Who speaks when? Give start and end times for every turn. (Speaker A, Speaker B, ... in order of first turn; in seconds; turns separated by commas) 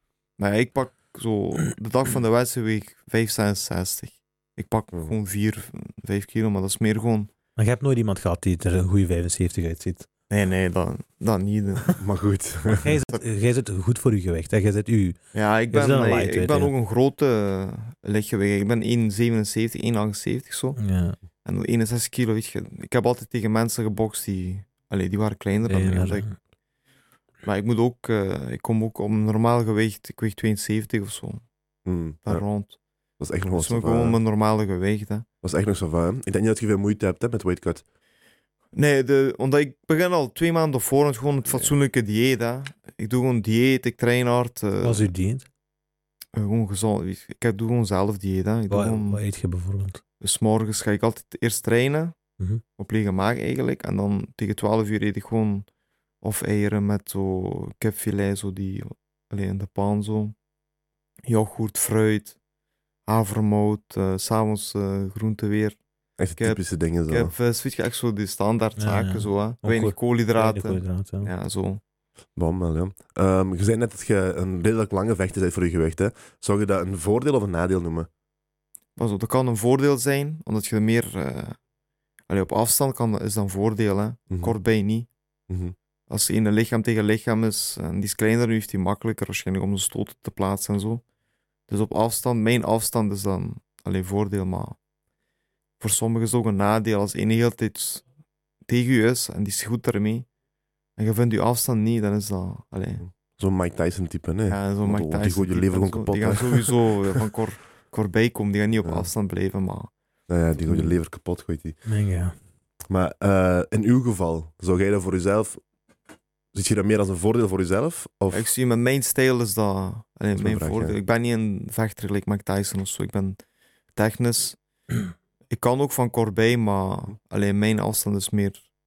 Speaker A: 0.4-7.3, Speaker B: 7.6-10.1, Speaker A: 10.3-12.0, Speaker C: 12.0-12.9, Speaker B: 12.7-15.2, Speaker A: 15.3-20.8, Speaker B: 15.7-16.7, Speaker B: 20.8-21.2, Speaker A: 21.4-26.3, Speaker B: 25.7-26.3, Speaker A: 27.4-31.4, Speaker C: 31.8-32.4, Speaker A: 32.2-32.8, Speaker C: 33.2-34.2, Speaker A: 33.5-35.2, Speaker C: 35.4-37.8, Speaker A: 38.7-45.1, Speaker B: 44.8-45.5, Speaker A: 46.3-49.2, Speaker B: 48.7-50.0, Speaker A: 50.2-52.1, Speaker A: 52.8-55.6, Speaker A: 56.2-60.3, Speaker A: 61.3-62.4, Speaker A: 63.0-65.8, Speaker C: 66.2-67.3, Speaker A: 66.4-71.8, Speaker B: 68.8-71.3, Speaker C: 72.3-78.1, Speaker A: 79.0-81.6, Speaker A: 82.3-85.1, Speaker C: 85.5-85.7, Speaker A: 86.1-91.0, Speaker A: 91.7-94.8, Speaker A: 95.8-98.0, Speaker A: 98.7-100.3, Speaker A: 101.0-103.0, Speaker C: 103.0-107.2, Speaker A: 104.5-109.9, Speaker C: 110.3-111.8, Speaker A: 110.7-110.9, Speaker B: 111.8-112.3, Speaker C: 112.9-115.6, Speaker C: 116.5-118.5, Speaker A: 118.3-123.4, Speaker C: 120.3-120.9, Speaker A: 123.9-124.6, Speaker A: 125.5-128.6